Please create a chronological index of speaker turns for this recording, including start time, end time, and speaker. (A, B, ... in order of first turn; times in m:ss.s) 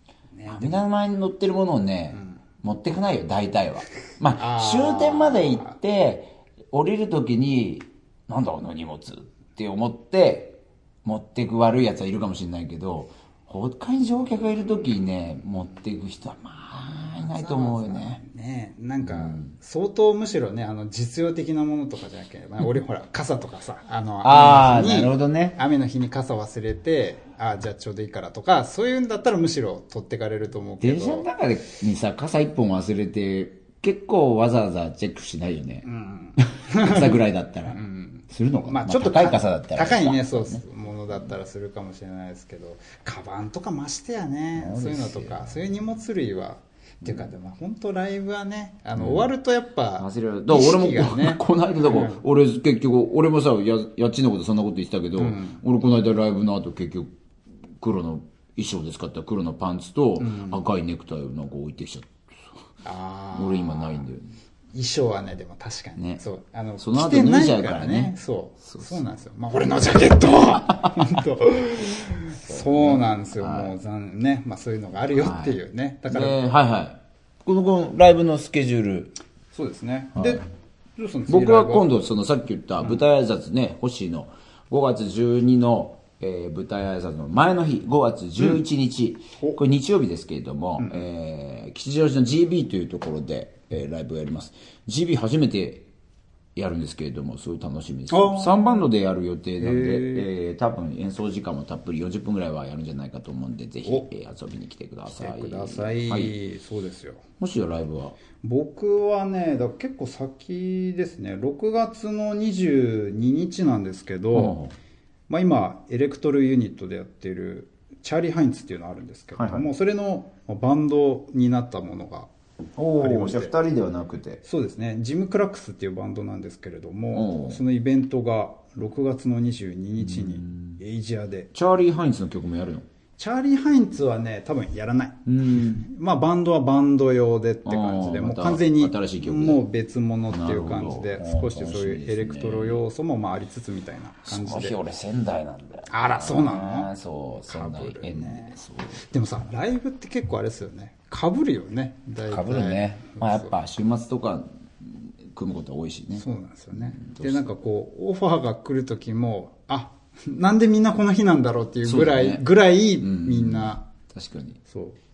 0:00.4-0:00.8 A
0:00.5-0:18.2 B
0:04.4-0:05.8 A
0:17.2-0:31.3 A
0:19.0-0:19.5 B
0:24.2-0:25.6 B
0:30.8-0:35.8 B
0:35.8-0:37.2 A
0:36.4-0:40.6 B
0:37.7-0:52.2 A
0:44.6-0:45.6 B
0:49.0-0:49.3 B
0:50.0-0:57.1 B
0:55.2-0:55.6 A
0:57.8-1:02.2 B
1:00.2-1:00.6 A
1:02.8-1:04.0 A
1:03.4-1:04.3 B
1:04.7-1:16.4 A
1:06.0-1:06.2 B
1:06.8-1:09.0 B
1:10.7-1:11.2 B
1:12.4-1:13.8 B
1:15.2-1:15.6 B
1:16.1-1:19.2 B
1:19.5-1:20.4 A
1:20.2-1:20.4 B
1:21.0-1:21.9 A
1:21.3-1:35.9 B
1:36.6-1:46.3 B
1:38.1-1:38.8 A
1:39.6-1:40.3 A
1:45.1-1:47.2 A
1:47.4-1:48.2 B
1:48.4-1:54.6 A
1:54.3-1:54.7 B
1:55.3-2:02.3 A
1:59.4-1:59.7 B
2:02.8-2:04.4 B
2:03.0-2:03.5 A
2:04.4-2:11.5 A
2:07.1-2:07.6 B
2:10.0-2:10.8 B
2:11.5-2:12.9 B
2:13.2-2:24.8 A
2:15.3-2:15.8 B
2:17.6-2:19.6 B
2:20.3-2:22.8 B
2:24.3-2:29.0 B
2:25.9-2:26.9 A
2:27.5-2:33.5 A
2:32.3-2:37.5 B
2:36.2-2:43.9 A
2:41.8-2:42.5 B
2:43.0-2:44.6 B
2:44.7-2:45.0 A